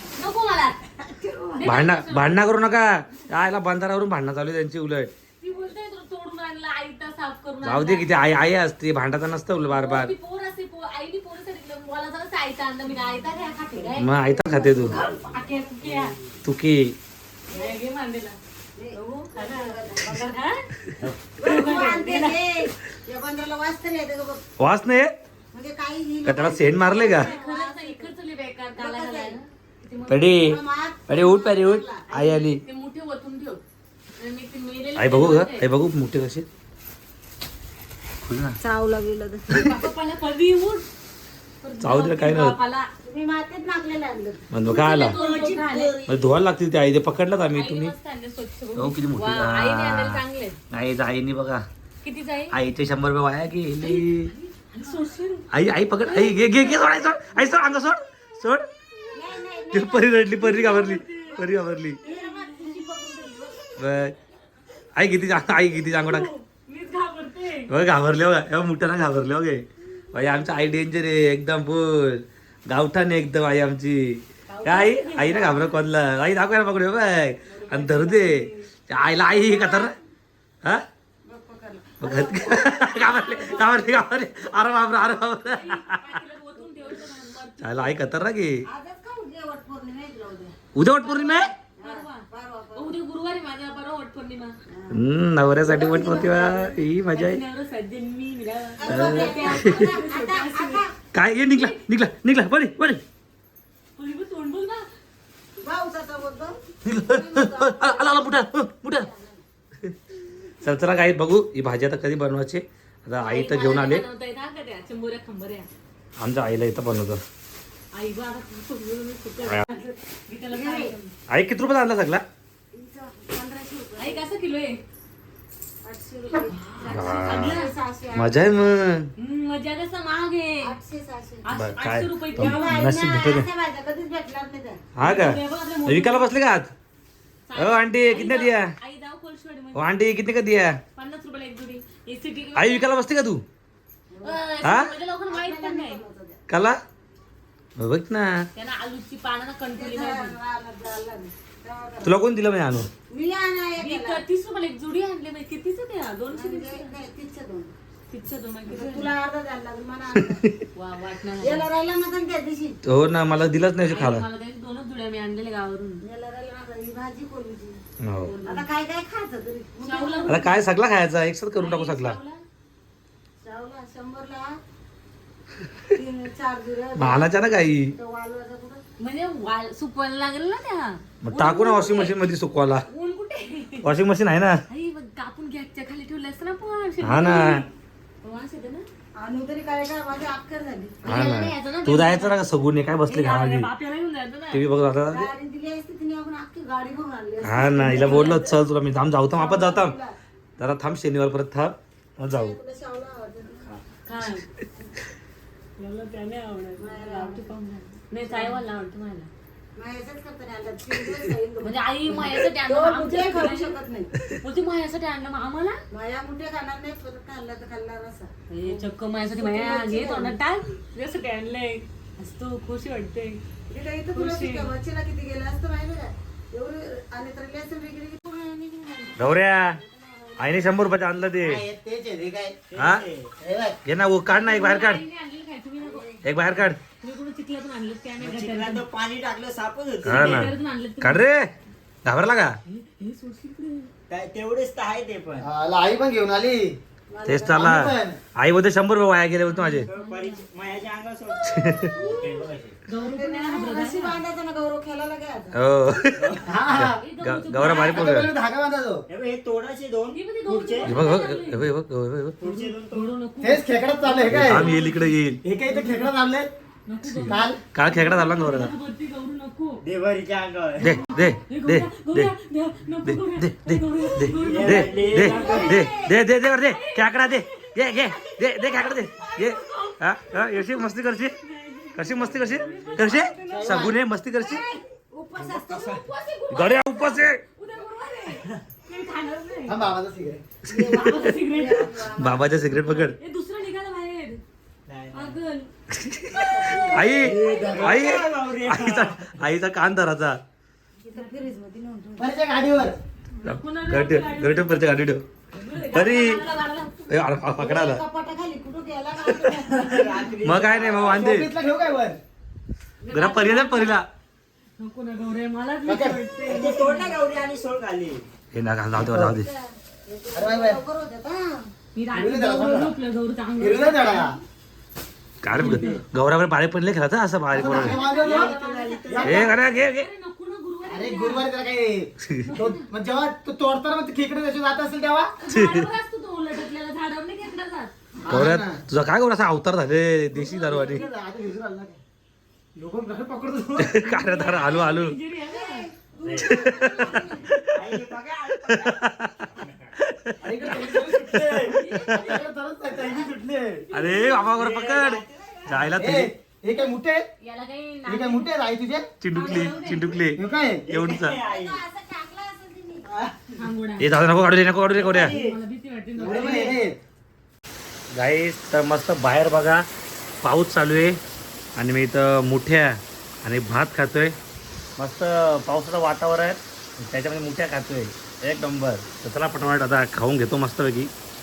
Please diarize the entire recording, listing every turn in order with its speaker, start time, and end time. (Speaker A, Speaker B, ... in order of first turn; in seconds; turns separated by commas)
Speaker A: 0.1-0.8, Speaker B: 1.0-1.8, Speaker A: 1.6-2.4, Speaker C: 1.6-5.1, Speaker A: 5.4-8.1, Speaker C: 7.6-10.1, Speaker A: 9.7-16.1, Speaker C: 14.0-15.0, Speaker B: 14.3-15.0, Speaker C: 16.4-16.9, Speaker A: 17.5-18.4, Speaker B: 18.8-20.1, Speaker A: 18.9-20.6, Speaker B: 21.4-24.4, Speaker A: 21.4-22.4, Speaker C: 24.6-25.1, Speaker B: 25.5-28.1, Speaker C: 26.2-27.3, Speaker A: 27.0-29.5, Speaker B: 28.8-32.1, Speaker C: 30.1-32.6, Speaker A: 32.1-33.6, Speaker A: 34.2-35.7, Speaker C: 35.0-36.5, Speaker C: 38.2-38.6, Speaker B: 38.6-39.7, Speaker A: 39.5-40.9, Speaker A: 41.6-42.9, Speaker C: 41.8-42.5, Speaker B: 43.0-44.6, Speaker C: 44.5-45.2, Speaker A: 44.7-46.0, Speaker D: 45.0-46.2, Speaker C: 46.1-47.9, Speaker A: 47.5-50.6, Speaker C: 48.8-51.6, Speaker A: 52.0-52.6, Speaker C: 52.5-54.3, Speaker A: 53.8-55.4, Speaker C: 55.5-58.6, Speaker A: 56.0-57.1, Speaker B: 59.1-60.3, Speaker C: 59.7-62.0, Speaker A: 60.4-61.5, Speaker B: 62.0-63.6, Speaker A: 62.1-62.8, Speaker C: 63.8-64.1, Speaker C: 65.0-66.3, Speaker A: 65.9-67.7, Speaker C: 67.7-80.0, Speaker A: 74.5-75.7, Speaker A: 77.5-78.7, Speaker A: 79.2-79.8, Speaker B: 81.2-83.9, Speaker C: 82.0-86.1, Speaker A: 82.9-83.8, Speaker A: 85.5-88.0, Speaker B: 86.6-86.9, Speaker C: 87.6-88.6, Speaker B: 88.7-90.5, Speaker C: 90.7-91.5, Speaker B: 91.0-93.0, Speaker A: 91.7-94.5, Speaker B: 94.7-95.1, Speaker C: 94.9-97.4, Speaker B: 95.6-96.8, Speaker A: 97.1-100.8, Speaker B: 98.8-101.0, Speaker C: 98.8-99.8, Speaker C: 101.1-103.0, Speaker A: 101.5-101.8, Speaker A: 104.0-104.9, Speaker B: 105.6-109.4, Speaker C: 106.8-109.1, Speaker C: 110.6-114.0, Speaker A: 113.2-115.7, Speaker C: 116.2-117.2, Speaker A: 117.9-121.1, Speaker B: 120.5-121.0, Speaker C: 121.3-122.2, Speaker B: 122.7-124.3, Speaker A: 124.0-124.8, Speaker B: 125.8-128.5, Speaker A: 126.5-127.7, Speaker C: 126.9-127.6, Speaker C: 128.1-129.1, Speaker A: 129.2-130.7, Speaker B: 130.6-131.5, Speaker A: 131.4-132.7, Speaker C: 131.5-133.4, Speaker B: 132.4-134.8, Speaker C: 134.9-136.7, Speaker A: 135.0-136.3, Speaker A: 137.5-140.0, Speaker C: 137.6-138.7, Speaker C: 139.7-140.8, Speaker A: 140.9-142.9, Speaker C: 142.5-143.4, Speaker B: 144.1-146.4, Speaker A: 144.2-146.0, Speaker C: 144.6-144.9, Speaker C: 146.5-146.8, Speaker C: 147.8-148.3, Speaker A: 148.5-150.3, Speaker B: 149.7-152.2, Speaker C: 152.0-152.9, Speaker B: 153.1-154.2, Speaker A: 153.8-156.9, Speaker B: 156.3-157.7, Speaker A: 158.1-159.1, Speaker B: 158.7-160.4, Speaker C: 160.2-160.6, Speaker A: 160.7-161.7, Speaker B: 161.4-162.8, Speaker C: 162.8-164.2, Speaker A: 163.8-166.0, Speaker B: 166.0-167.8, Speaker C: 168.0-168.3, Speaker A: 168.3-168.6, Speaker B: 168.4-170.4, Speaker A: 169.8-170.7, Speaker C: 170.3-172.2, Speaker A: 171.5-172.4, Speaker B: 173.4-174.6, Speaker B: 175.9-178.8, Speaker C: 177.0-177.9, Speaker A: 179.0-182.3, Speaker C: 181.2-182.8, Speaker A: 182.8-183.9, Speaker C: 183.8-184.6, Speaker A: 184.7-187.7, Speaker C: 187.0-187.6, Speaker A: 188.2-188.9, Speaker B: 189.1-191.1, Speaker A: 191.0-192.4, Speaker C: 191.0-193.7, Speaker A: 193.1-194.6, Speaker C: 194.5-195.3, Speaker B: 195.1-198.2, Speaker C: 197.4-199.9, Speaker A: 197.9-198.6, Speaker B: 199.3-200.1, Speaker C: 200.6-202.6, Speaker B: 202.3-203.7, Speaker A: 203.9-204.5, Speaker A: 205.8-209.3, Speaker B: 206.8-207.5, Speaker B: 208.2-208.6, Speaker B: 209.8-214.2, Speaker A: 211.6-213.8, Speaker A: 214.4-215.8, Speaker B: 215.9-220.4, Speaker A: 218.5-223.4, Speaker B: 223.7-230.9, Speaker A: 224.1-224.7, Speaker C: 229.2-229.8, Speaker C: 230.4-231.6, Speaker E: 231.4-232.6, Speaker D: 232.7-233.3, Speaker C: 232.7-233.0, Speaker E: 233.4-233.8, Speaker C: 233.8-235.0, Speaker A: 234.2-236.0, Speaker B: 235.8-236.4, Speaker C: 236.2-236.8, Speaker A: 237.0-238.8, Speaker D: 238.2-240.5, Speaker C: 240.0-241.5, Speaker A: 240.0-241.2, Speaker C: 242.0-242.5, Speaker A: 242.7-243.9, Speaker D: 244.1-245.5, Speaker E: 245.4-246.8, Speaker B: 247.1-247.8, Speaker C: 247.2-249.9, Speaker E: 247.5-248.2, Speaker A: 249.5-250.4, Speaker D: 249.9-252.8, Speaker C: 251.4-251.9, Speaker A: 251.6-252.2, Speaker B: 251.9-255.6, Speaker A: 252.8-254.2, Speaker C: 255.5-258.3, Speaker D: 256.1-256.5, Speaker E: 256.4-257.0, Speaker A: 256.8-258.3, Speaker E: 257.7-259.0, Speaker D: 259.1-260.9, Speaker A: 260.1-261.6, Speaker C: 260.8-262.4, Speaker D: 262.4-263.1, Speaker A: 262.4-265.2, Speaker E: 263.4-264.7, Speaker C: 264.3-265.4, Speaker E: 265.4-266.5, Speaker A: 266.9-269.8, Speaker C: 267.1-268.7, Speaker E: 267.2-267.6, Speaker D: 269.8-271.0, Speaker C: 270.8-272.3, Speaker A: 271.0-283.8, Speaker C: 273.0-281.3, Speaker D: 274.4-275.8, Speaker B: 274.7-276.1, Speaker C: 281.9-284.6, Speaker D: 282.1-283.2, Speaker E: 283.4-283.9, Speaker B: 283.7-286.0, Speaker D: 285.4-286.0, Speaker A: 285.7-289.8, Speaker C: 286.5-287.4, Speaker E: 289.7-290.5, Speaker B: 290.6-292.4, Speaker C: 290.6-291.4, Speaker A: 290.9-291.9, Speaker C: 292.0-293.1, Speaker A: 292.7-294.4, Speaker D: 294.9-295.4, Speaker A: 295.1-295.7, Speaker C: 295.9-300.4, Speaker A: 296.3-297.9, Speaker B: 296.6-297.0, Speaker D: 297.3-299.4, Speaker B: 301.0-302.9, Speaker A: 301.1-301.5, Speaker E: 302.2-303.0, Speaker A: 303.4-304.8, Speaker C: 303.4-305.2, Speaker A: 305.5-307.1, Speaker C: 305.9-306.4, Speaker C: 307.1-308.0, Speaker B: 307.5-310.2, Speaker E: 309.7-310.1, Speaker D: 309.8-311.4, Speaker C: 310.4-311.5, Speaker E: 311.2-312.2, Speaker A: 313.0-314.0, Speaker C: 313.1-314.1, Speaker A: 314.8-317.2, Speaker E: 315.9-316.2, Speaker D: 316.4-318.2, Speaker C: 318.5-319.5, Speaker E: 319.0-319.3, Speaker B: 319.3-321.7, Speaker E: 320.3-320.8, Speaker A: 321.9-324.4, Speaker E: 322.1-322.9, Speaker E: 323.6-324.4, Speaker C: 325.4-328.0, Speaker A: 325.6-326.0, Speaker E: 325.6-326.0, Speaker E: 327.6-328.5, Speaker A: 327.6-331.4, Speaker D: 327.7-329.5, Speaker B: 328.3-329.3, Speaker E: 329.1-329.4, Speaker C: 329.2-330.1, Speaker E: 330.9-335.3, Speaker C: 332.2-332.5, Speaker A: 332.4-332.9, Speaker A: 335.4-337.9, Speaker C: 335.5-335.9, Speaker E: 338.2-338.8, Speaker C: 338.3-341.1, Speaker A: 340.4-341.1, Speaker B: 340.4-340.7, Speaker E: 340.6-342.0, Speaker E: 342.7-344.0, Speaker C: 343.8-345.2, Speaker A: 343.9-347.2, Speaker B: 345.3-347.6, Speaker C: 346.2-347.6, Speaker D: 347.7-349.0, Speaker C: 348.7-351.6, Speaker D: 349.6-349.9, Speaker E: 350.4-353.8, Speaker D: 350.7-351.8, Speaker A: 351.6-352.5, Speaker D: 352.9-353.3, Speaker B: 353.0-353.3, Speaker A: 353.9-354.6, Speaker C: 353.9-356.3, Speaker D: 354.5-356.1, Speaker E: 356.0-357.2, Speaker A: 357.4-358.5, Speaker E: 358.1-359.1, Speaker C: 359.2-361.4, Speaker A: 359.3-360.2, Speaker E: 360.3-360.9, Speaker D: 360.8-361.8, Speaker B: 361.4-363.1, Speaker E: 363.1-363.4, Speaker A: 363.6-364.1, Speaker C: 364.0-365.3, Speaker D: 364.9-365.6, Speaker A: 365.1-366.7, Speaker D: 366.2-366.8, Speaker E: 366.2-367.0, Speaker B: 366.4-366.7, Speaker C: 368.1-369.8, Speaker C: 370.4-371.2, Speaker C: 371.8-374.3, Speaker C: 375.0-381.1